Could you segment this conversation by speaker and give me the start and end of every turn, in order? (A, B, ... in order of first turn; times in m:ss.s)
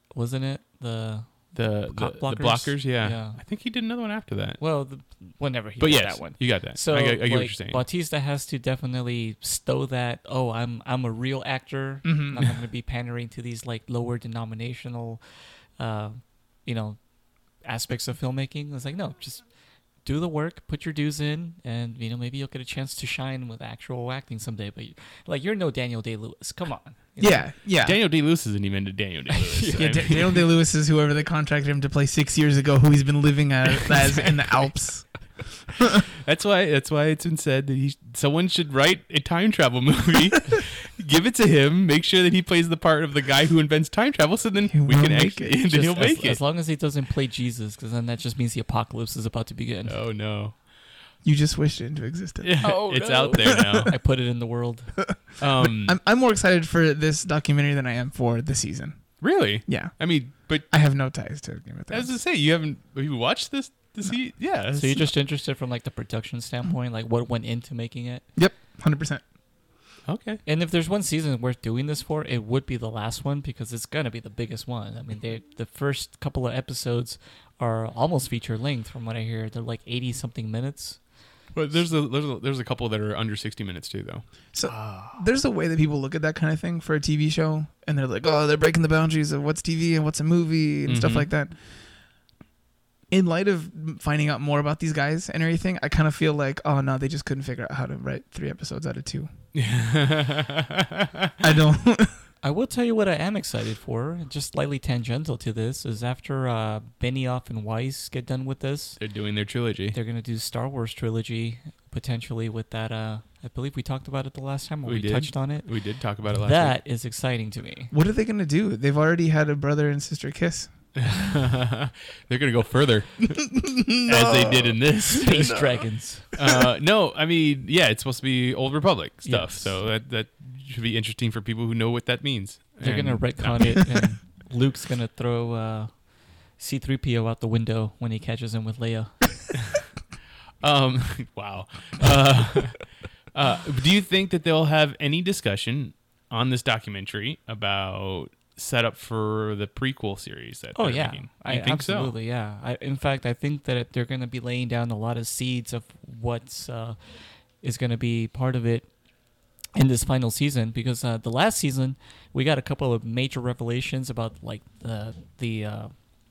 0:00.1-0:03.4 A
0:01.5-0:04.6 B
0:04.6-0:17.0 A
0:05.8-0:07.8 B
0:12.0-0:12.6 C
0:17.6-0:19.4 A
0:20.0-0:27.5 A
0:27.2-0:28.0 C
0:27.8-0:30.4 B
0:29.3-0:30.4 A
0:29.8-0:35.4 C
0:36.2-0:46.4 B
0:44.7-0:45.6 C
0:45.7-0:50.0 A
0:49.8-0:50.6 B
0:51.2-0:52.8 C
0:52.4-0:53.9 B
0:52.6-0:55.0 A
0:53.3-0:53.9 C
0:55.1-1:00.1 C
0:55.4-0:56.0 B
0:59.2-1:00.7 B
1:00.7-1:02.1 C
1:01.9-1:05.1 B
1:04.7-1:08.2 A
1:08.4-1:09.2 C
1:10.1-1:10.4 B
1:10.4-1:21.0 A
1:21.5-1:25.2 B
1:24.5-1:31.6 C
1:30.8-1:31.3 B
1:33.1-1:39.3 C
1:39.5-1:41.3 B
1:41.4-1:42.2 C
1:42.4-1:49.0 A
1:49.0-1:50.0 B
1:49.9-1:55.7 A
1:54.8-1:56.8 B
1:56.3-1:57.9 A
1:57.9-2:00.7 C
2:01.0-2:05.8 B
2:03.5-2:04.8 C
2:05.1-2:06.3 A
2:05.3-2:05.6 C
2:06.3-2:14.1 B
2:06.4-2:06.6 C
2:09.2-2:09.8 A
2:12.8-2:19.5 A
2:20.6-2:32.1 B
2:30.7-2:37.0 A
2:37.6-2:38.9 A
2:39.7-2:46.0 A